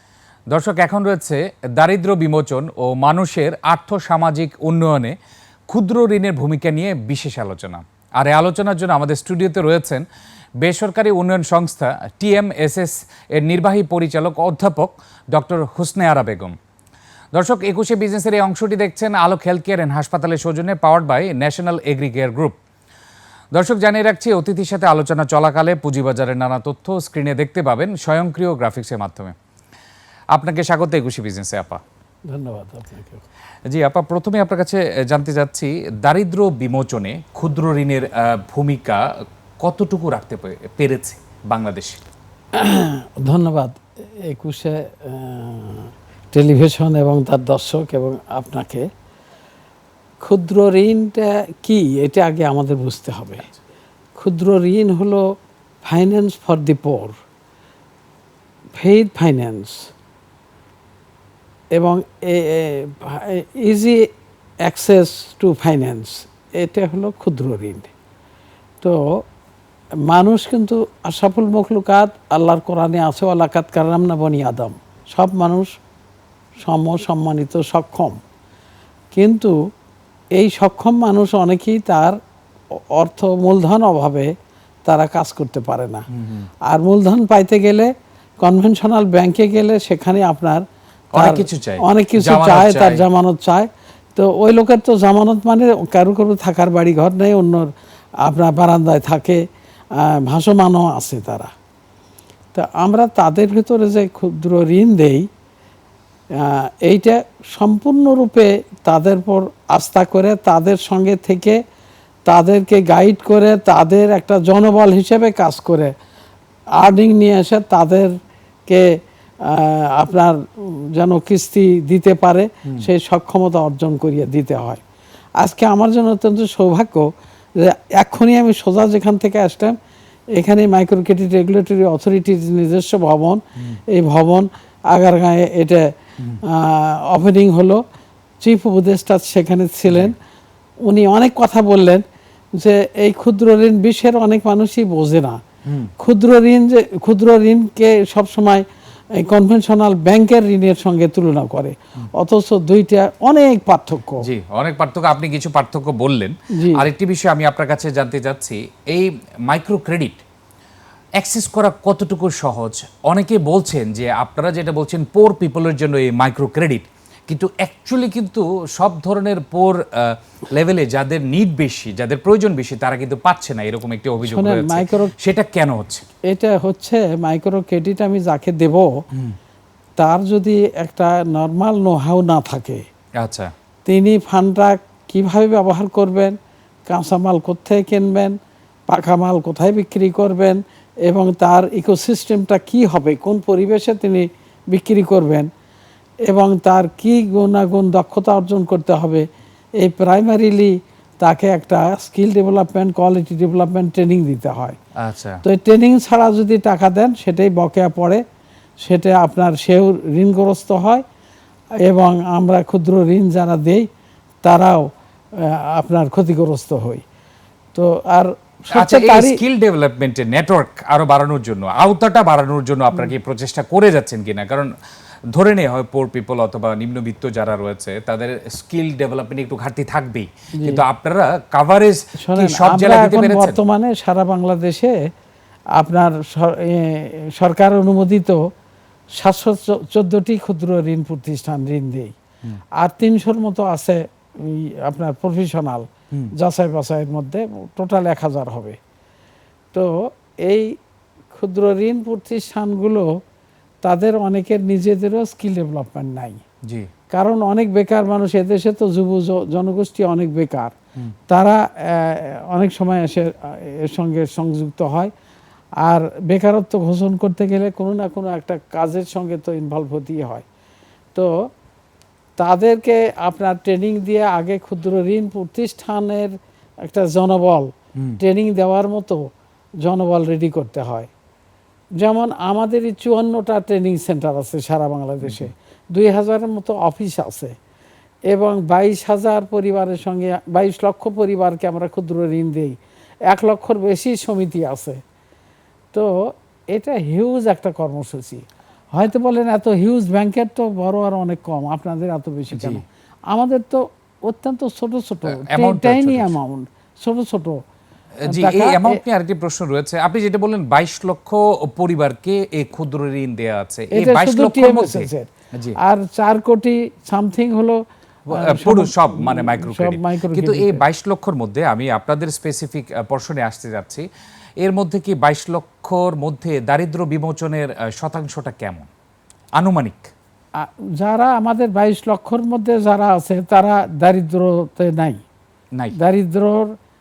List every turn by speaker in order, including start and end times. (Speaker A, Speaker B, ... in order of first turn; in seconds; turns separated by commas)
Speaker A: 0.5-5.2, Speaker A: 5.7-10.0, Speaker A: 10.6-16.5, Speaker A: 17.3-22.6, Speaker A: 23.5-29.3, Speaker A: 30.3-31.8, Speaker B: 32.3-33.2, Speaker A: 33.7-39.0, Speaker A: 39.6-42.0, Speaker B: 42.6-48.9, Speaker B: 50.2-53.4, Speaker B: 54.2-55.2, Speaker B: 55.8-57.2, Speaker B: 58.8-59.9, Speaker B: 61.8-64.0, Speaker B: 64.7-67.9, Speaker B: 70.1-75.7, Speaker B: 76.6-78.2, Speaker B: 79.1-79.5, Speaker B: 80.4-82.2, Speaker B: 82.9-84.3, Speaker B: 84.9-86.0, Speaker A: 86.2-86.5, Speaker B: 86.7-90.6, Speaker A: 91.1-93.0, Speaker B: 91.2-97.7, Speaker B: 98.2-99.4, Speaker B: 100.0-101.5, Speaker B: 102.5-105.3, Speaker B: 106.4-111.6, Speaker B: 112.3-115.9, Speaker B: 116.8-118.1, Speaker B: 119.4-124.8, Speaker B: 125.4-129.8, Speaker B: 130.4-135.8, Speaker B: 136.5-137.8, Speaker B: 138.4-140.2, Speaker A: 139.9-140.2, Speaker B: 140.8-142.0, Speaker B: 142.6-145.4, Speaker A: 145.7-145.9, Speaker B: 146.0-148.6, Speaker B: 149.2-154.2, Speaker A: 154.2-160.2, Speaker B: 156.5-156.9, Speaker A: 161.2-176.0, Speaker B: 174.2-175.1, Speaker B: 176.3-178.9, Speaker B: 180.0-182.8, Speaker A: 183.2-183.5, Speaker B: 183.9-186.3, Speaker B: 186.9-188.3, Speaker B: 188.9-195.5, Speaker B: 196.3-199.2, Speaker B: 199.8-204.8, Speaker A: 205.0-205.4, Speaker B: 205.4-208.2, Speaker B: 208.8-211.0, Speaker B: 211.8-213.9, Speaker B: 214.4-214.9, Speaker B: 215.4-217.0, Speaker B: 217.7-219.4, Speaker A: 218.7-224.7, Speaker A: 225.3-233.6, Speaker B: 232.2-235.0, Speaker B: 235.8-238.4, Speaker B: 239.2-242.1, Speaker B: 242.8-245.8, Speaker B: 246.4-248.8, Speaker B: 250.5-250.7, Speaker B: 251.3-253.1, Speaker B: 253.8-256.4, Speaker B: 257.1-260.7, Speaker B: 261.3-265.1, Speaker B: 265.8-270.4, Speaker B: 272.4-276.3, Speaker B: 276.9-277.7, Speaker B: 278.2-279.2, Speaker B: 279.8-281.1, Speaker B: 282.0-287.5, Speaker A: 285.2-285.5, Speaker B: 288.3-292.8, Speaker B: 293.3-295.0, Speaker B: 296.7-307.6, Speaker A: 302.5-302.8, Speaker A: 305.3-306.4, Speaker A: 308.2-315.8, Speaker B: 308.3-309.0, Speaker B: 313.9-320.8, Speaker A: 318.3-324.1, Speaker A: 324.6-328.9, Speaker A: 329.6-330.1, Speaker B: 330.6-335.2, Speaker B: 336.0-336.7